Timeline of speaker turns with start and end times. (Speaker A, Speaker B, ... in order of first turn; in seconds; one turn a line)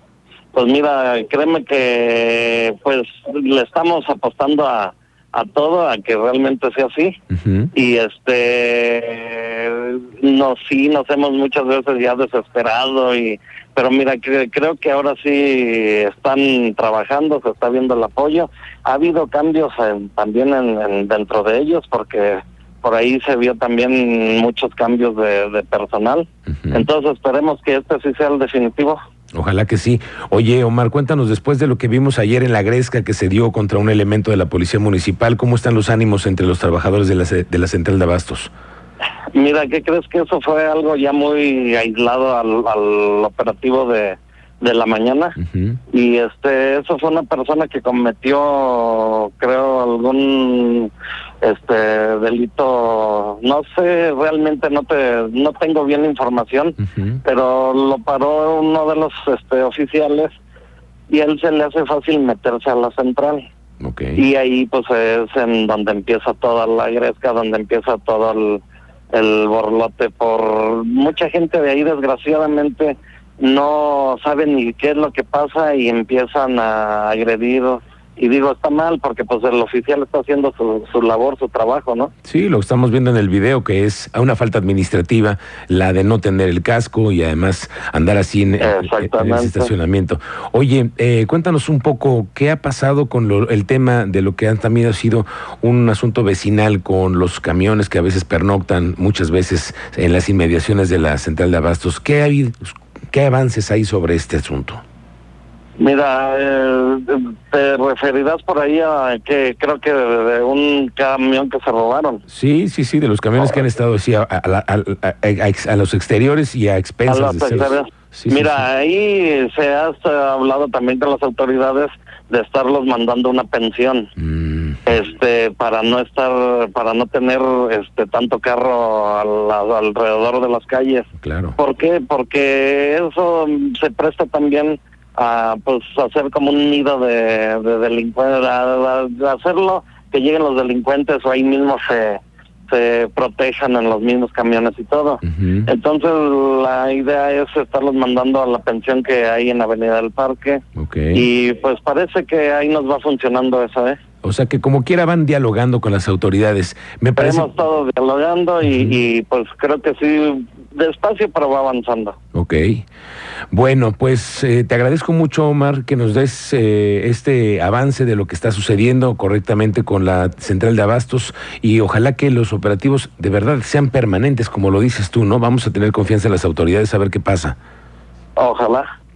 Speaker A: 0.5-7.2
Speaker B: 7.4-7.7
Speaker A: 7.7-29.0
Speaker B: 29.3-38.5
Speaker A: 39.3-45.4
Speaker B: 45.4-45.8
Speaker A: 45.9-60.3
Speaker B: 56.9-57.2
Speaker A: 61.1-63.5
Speaker B: 63.8-64.2
Speaker A: 64.1-82.1
Speaker B: 82.2-104.8
Speaker A: 88.6-89.7
Speaker A: 105.8-112.2
Speaker B: 112.3-118.6
Speaker A: 117.1-124.1
Speaker B: 124.2-124.9
Speaker A: 124.9-154.0
Speaker B: 131.2-131.6
Speaker B: 145.3-145.7
Speaker B: 150.8-151.2
Speaker B: 154.2-157.5
Speaker A: 157.2-162.2
Speaker B: 162.3-162.9
Speaker B: 163.5-177.6
Speaker A: 178.4-178.9